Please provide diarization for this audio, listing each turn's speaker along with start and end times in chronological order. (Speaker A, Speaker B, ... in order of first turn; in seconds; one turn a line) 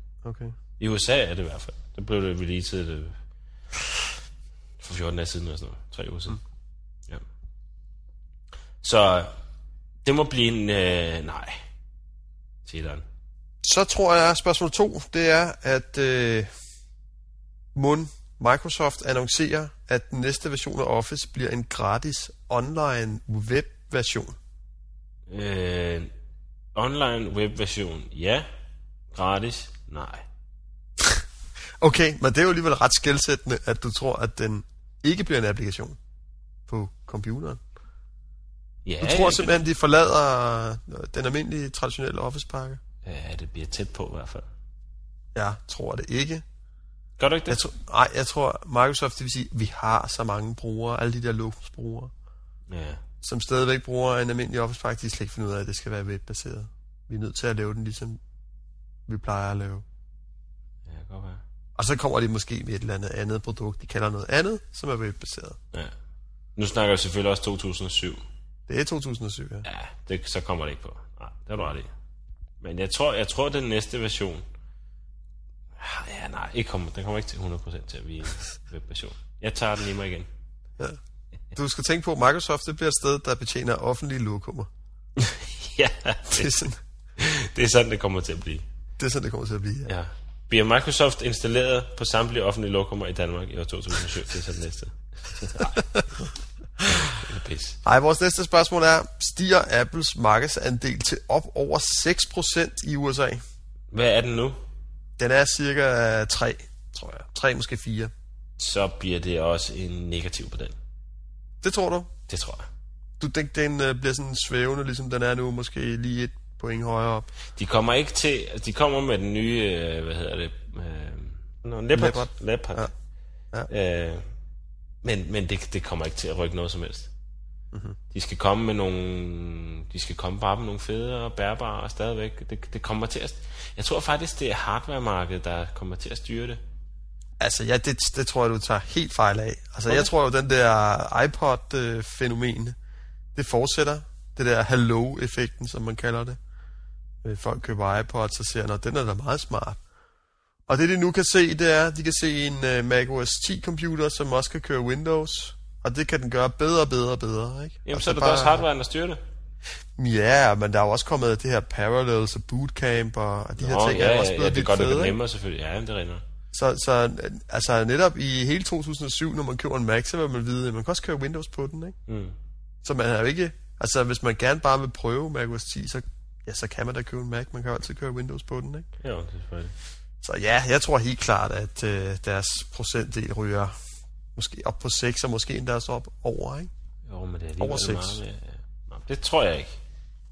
Speaker A: 0.2-0.6
Speaker B: 0.8-3.2
Speaker B: 4.8-6.4
Speaker B: 8.8-9.3
Speaker B: 10.0-11.6
Speaker B: 12.7-13.0
Speaker A: 13.6-16.5
Speaker A: 17.8-24.4
Speaker B: 25.3-26.1
Speaker B: 26.8-28.5
Speaker B: 29.1-30.2
Speaker A: 31.8-36.0
Speaker A: 36.7-37.6
Speaker B: 38.9-39.5
Speaker A: 39.0-42.8
Speaker B: 43.0-44.5
Speaker A: 45.4-46.4
Speaker B: 47.2-47.6
Speaker A: 47.5-52.1
Speaker B: 52.7-53.0
Speaker A: 53.2-58.2
Speaker A: 59.1-59.9
Speaker B: 60.9-61.4
Speaker A: 61.8-65.6
Speaker B: 66.6-68.2
Speaker A: 68.7-69.7
Speaker B: 69.7-71.9
Speaker B: 72.6-74.5
Speaker B: 75.8-80.3
Speaker A: 81.5-84.7
Speaker B: 85.2-86.5
Speaker A: 86.3-86.8
Speaker B: 87.2-88.7
Speaker A: 89.0-89.9
Speaker B: 89.9-95.8
Speaker A: 95.6-96.1
Speaker A: 96.8-97.1
Speaker B: 96.8-97.8
Speaker A: 97.8-103.4
Speaker B: 103.9-104.6
Speaker A: 105.2-108.1
Speaker B: 108.6-110.8
Speaker A: 111.6-112.1
Speaker B: 112.3-112.7
Speaker A: 113.2-117.3
Speaker B: 117.6-122.9
Speaker A: 121.9-122.9
Speaker B: 123.7-124.3
Speaker B: 125.0-127.1
Speaker A: 127.7-128.0
Speaker B: 128.1-136.6
Speaker A: 137.4-142.8
Speaker A: 143.3-146.4
Speaker A: 147.2-149.8
Speaker A: 150.7-158.7
Speaker B: 157.9-159.2
Speaker A: 160.0-165.2
Speaker B: 163.6-166.2
Speaker A: 166.5-171.9
Speaker B: 172.1-172.3
Speaker A: 172.8-178.9
Speaker B: 179.0-179.7
Speaker A: 180.2-183.7
Speaker A: 184.3-186.7
Speaker B: 187.1-189.7
Speaker A: 187.6-188.2